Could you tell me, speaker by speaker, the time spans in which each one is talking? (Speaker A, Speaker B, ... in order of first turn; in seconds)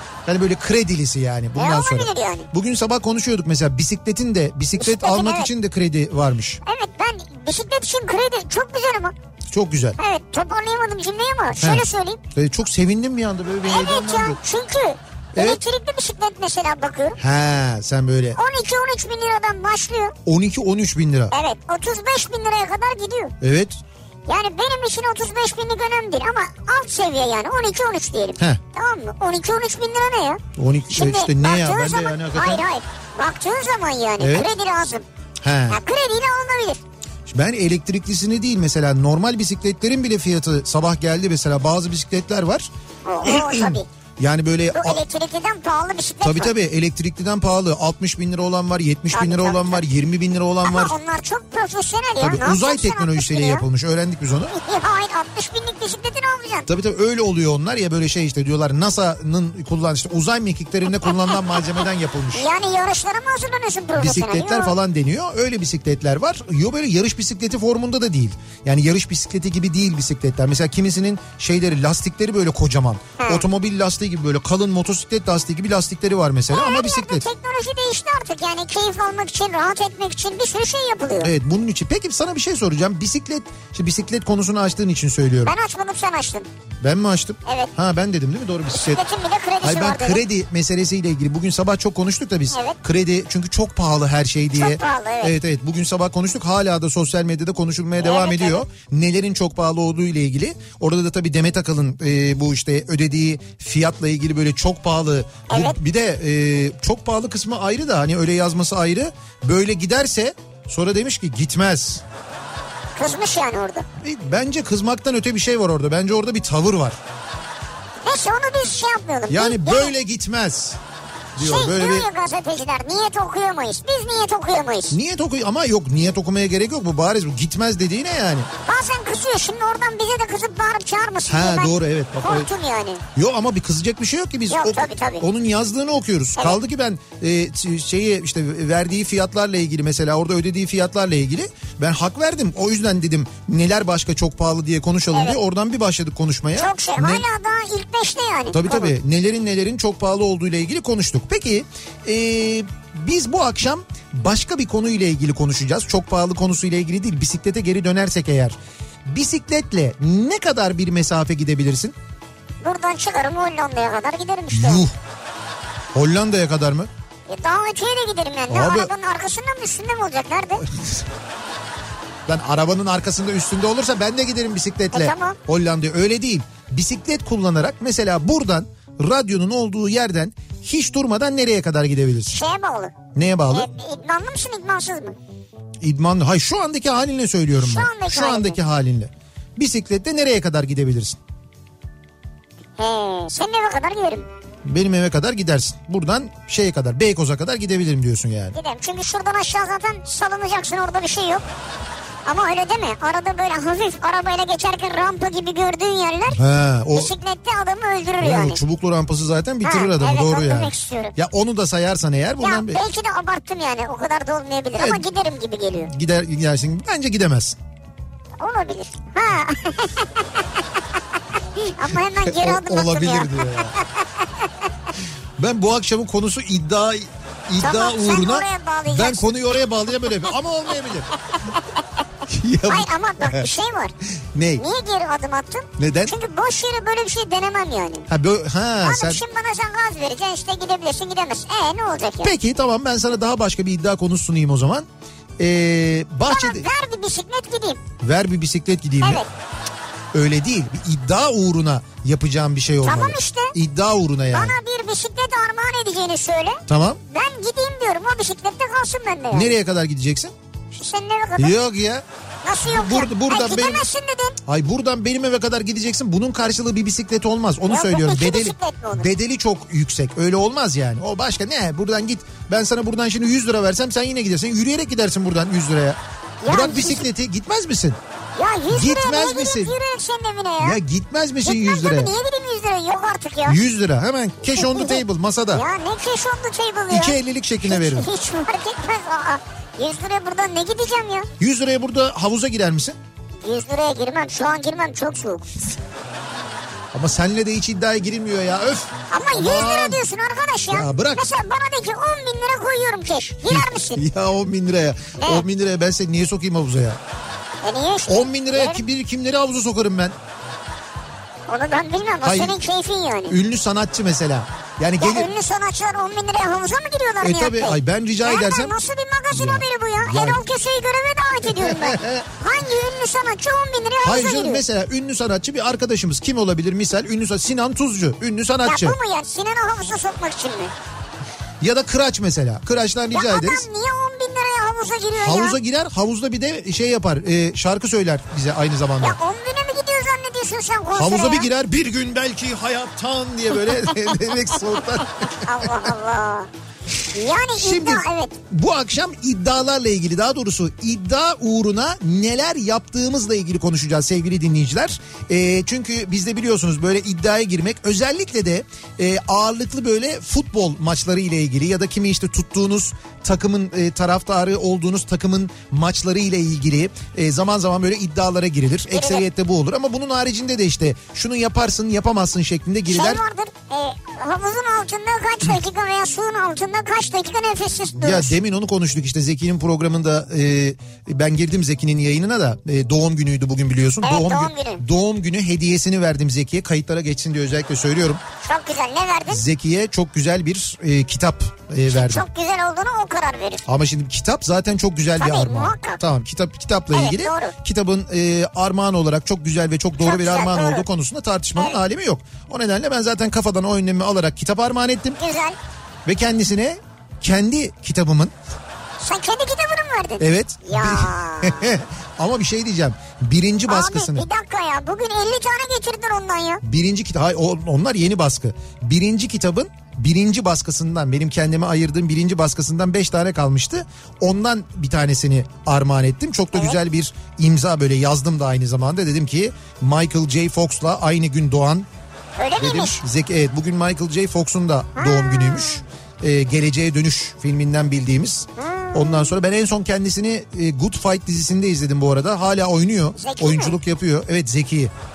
Speaker A: 0.2-6.6, 9.5-10.0, 11.6-14.4, 17.2-18.4, 20.2-21.3, 23.4-23.8, 30.5-32.7, 34.2-34.5, 35.4-35.8, 37.3-42.7, 43.2-45.0, 46.2-50.9, 52.2-54.5, 56.7-62.5, 63.9-77.2, 81.2-85.5, 86.8-89.0, 89.6-112.0, 114.0-117.0, 119.3-120.8, 121.4-122.0, 124.9-128.5, 131.3-132.5, 133.1-147.2, 148.5-161.9, 164.5-164.9, 165.9-166.9, 168.5-168.9, 170.7-171.0, 172.3-182.4, 183.1-183.7, 185.8-191.2, 194.6-198.6, 206.3-207.1, 208.2-212.8, 214.8-215.0, 215.8-217.6, 222.2-223.8, 225.4-231.1, 232.2-233.5, 234.3-234.6, 235.8-236.1, 238.1-239.2, 242.2-244.8, 245.4-246.7, 248.0-249.2, 250.1-254.5, 256.7-257.0, 259.3-260.3, 261.4-262.0, 262.6-263.8, 264.4-278.0, 278.7-279.7, 280.6-282.1, 283.4-285.6, 286.9-288.1, 291.4-292.9, 296.9-300.0, 300.7-301.2, 303.4-307.0, 308.1-310.1, 312.2-312.6, 313.3-315.3, 317.2-318.7, 319.3-320.4, 321.4-322.3, 324.0-329.0, 331.6-333.6, 335.2-339.2, 340.9-345.8, 347.6-373.2, 377.9-388.2, 389.3-392.2, 393.6-405.2, 406.1-408.3, 410.2-414.2, 416.6-431.9, 432.6-444.9
Speaker B: 1.5-2.5, 4.8-5.5, 6.6-9.1, 10.0-12.2, 13.6-17.2, 18.4-20.1, 21.3-23.3, 24.3-35.0, 35.7-36.8, 43.0-43.9, 44.7-46.5, 49.1-49.8, 50.6-53.6, 54.5-56.7, 62.3-64.7, 73.2-73.5, 76.5-81.3, 85.4-86.5, 87.4-87.7, 88.7-90.2, 92.5-92.8, 94.5-95.3, 98.0-98.6, 105.5-105.8, 113.0-113.8, 118.0-119.9, 121.4-125.0, 128.6-133.0, 134.5-135.3, 146.6-148.9, 162.6-164.8, 167.3-170.6, 174.9-175.4, 182.3-182.9, 183.5-185.2, 187.6-188.6, 192.8-194.3, 198.5-201.4, 202.2-206.4, 206.9-208.6, 209.6-211.2, 212.4-215.9, 218.4-220.6, 221.6-224.5, 227.6-229.3, 232.7-233.9, 234.6-238.1, 238.8-242.3, 246.3-247.8, 249.0-249.3, 252.8-253.5, 254.3-259.5, 260.7-261.5, 262.4-264.4, 267.7-269.1, 276.4-277.1, 278.4-280.8, 281.4-283.6, 284.5-291.3, 293.4-295.4, 299.1-304.0, 305.2-305.4, 307.6-308.8, 311.5-313.4, 315.0-324.6, 328.6-330.7, 333.1-335.6, 339.0-341.5, 345.4-346.5, 347.0-348.4, 368.9-369.2, 372.9-378.3, 384.0-384.8, 388.4-389.4, 391.9-393.7, 395.2-396.0, 396.9-397.5, 400.0-400.9, 405.2-405.6, 409.0-411.7, 413.7-416.6, 432.4-433.0, 434.9-435.8, 438.6-439.3, 443.2-443.8